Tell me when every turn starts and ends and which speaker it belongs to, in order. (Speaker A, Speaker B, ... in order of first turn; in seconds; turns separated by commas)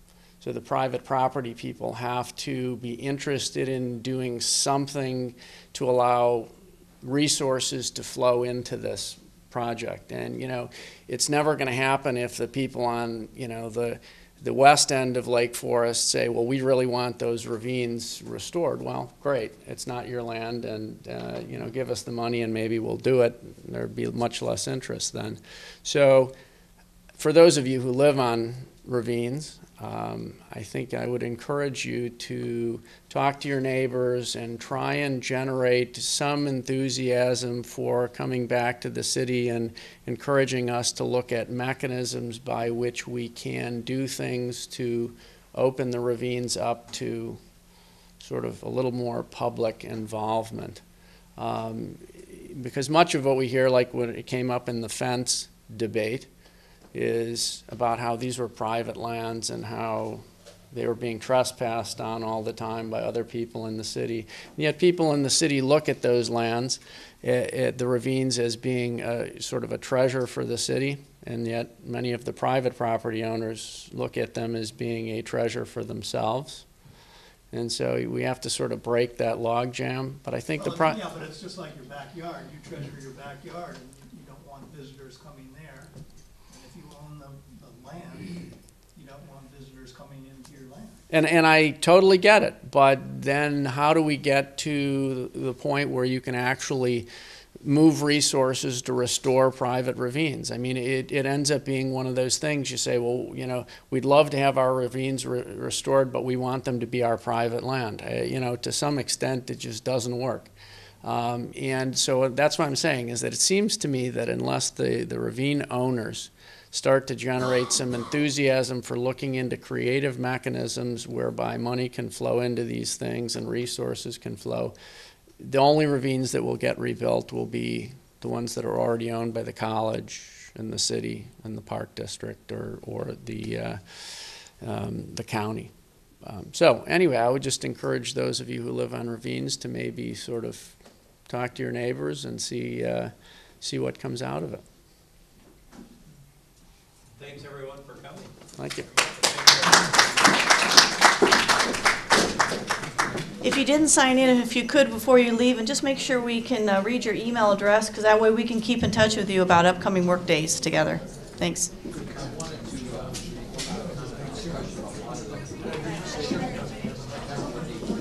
Speaker A: 0.4-6.5, Speaker A: 7.0-26.3, Speaker A: 27.2-47.4, Speaker A: 48.2-50.8, Speaker A: 51.4-56.3, Speaker A: 56.9-76.7, Speaker A: 77.5-81.0, Speaker B: 80.5-85.9, Speaker B: 86.5-91.0, Speaker A: 91.1-97.1, Speaker A: 97.6-110.5, Speaker A: 111.0-124.7, Speaker A: 125.4-144.6, Speaker C: 147.2-148.3, Speaker A: 148.6-148.8, Speaker C: 148.8-149.9, Speaker D: 153.4-161.7, Speaker C: 162.4-163.9, Speaker C: 164.8-165.3